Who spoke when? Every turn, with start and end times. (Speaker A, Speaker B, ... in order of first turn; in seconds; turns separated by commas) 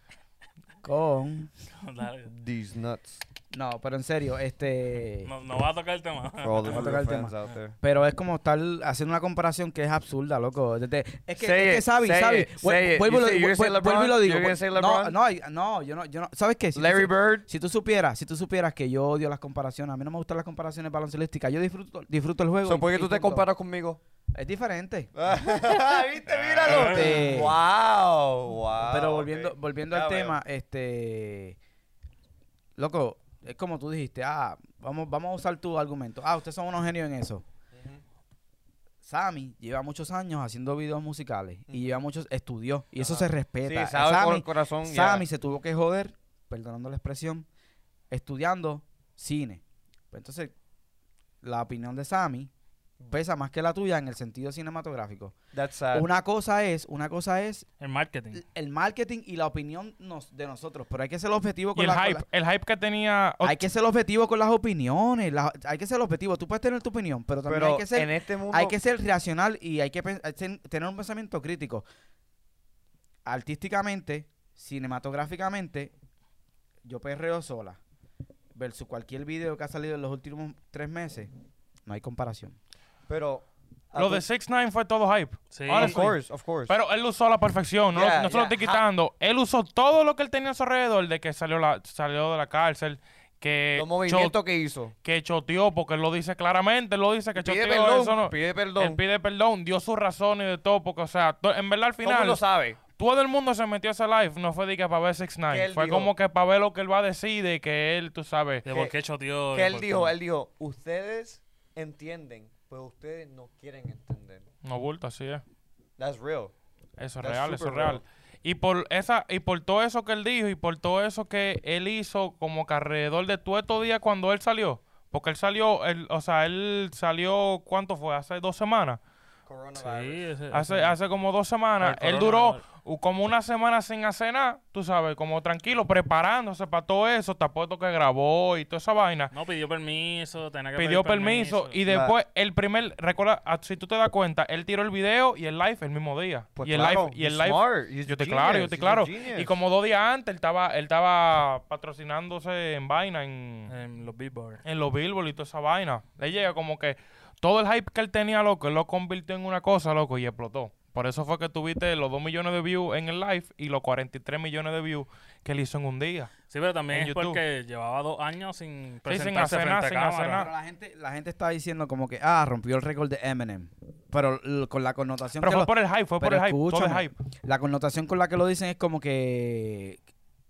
Speaker A: 0.8-1.5, Speaker B: 1.7-2.3, Speaker C: 2.3-3.2, Speaker A: 3.5-5.3, Speaker B: 5.2-6.9, Speaker C: 6.4-7.8, Speaker A: 6.7-23.5, Speaker C: 11.4-15.2, Speaker C: 16.8-17.4, Speaker C: 22.6-24.0, Speaker A: 24.3-25.1, Speaker C: 25.1-30.4, Speaker B: 26.4-27.2, Speaker A: 26.7-27.6, Speaker A: 28.9-31.6, Speaker A: 32.8-37.4, Speaker C: 37.7-38.0, Speaker A: 39.0-47.5, Speaker C: 41.7-41.9, Speaker C: 43.0-45.3, Speaker A: 48.1-50.5, Speaker A: 51.4-52.5, Speaker A: 53.1-55.4, Speaker C: 55.5-56.1, Speaker A: 55.9-57.7, Speaker B: 57.8-58.4, Speaker A: 58.3-62.2, Speaker D: 61.8-63.6, Speaker A: 63.4-71.8, Speaker C: 67.5-68.8, Speaker A: 73.3-75.9, Speaker A: 76.8-77.8, Speaker A: 78.5-81.3, Speaker A: 81.9-82.6, Speaker C: 83.1-84.2, Speaker D: 84.0-94.4, Speaker B: 85.5-86.0, Speaker C: 85.7-86.7, Speaker C: 87.9-88.8, Speaker C: 93.8-94.9, Speaker D: 95.0-102.4, Speaker C: 97.4-99.0, Speaker C: 102.0-102.8, Speaker D: 103.0-108.7, Speaker C: 105.5-106.1, Speaker B: 108.7-110.1, Speaker C: 108.7-108.9, Speaker C: 109.5-114.5, Speaker D: 114.6-115.4, Speaker C: 116.0-116.5, Speaker D: 117.0-129.0, Speaker C: 117.2-118.0, Speaker C: 129.5-130.3, Speaker B: 129.8-130.9, Speaker D: 130.5-139.3, Speaker B: 131.8-132.6, Speaker B: 139.3-141.8, Speaker D: 140.8-153.7, Speaker C: 141.9-142.2, Speaker C: 146.6-149.6, Speaker B: 153.7-154.6, Speaker D: 154.6-166.3, Speaker B: 166.5-170.5, Speaker D: 166.9-167.4, Speaker D: 169.1-170.5, Speaker A: 170.3-180.0, Speaker D: 175.4-177.1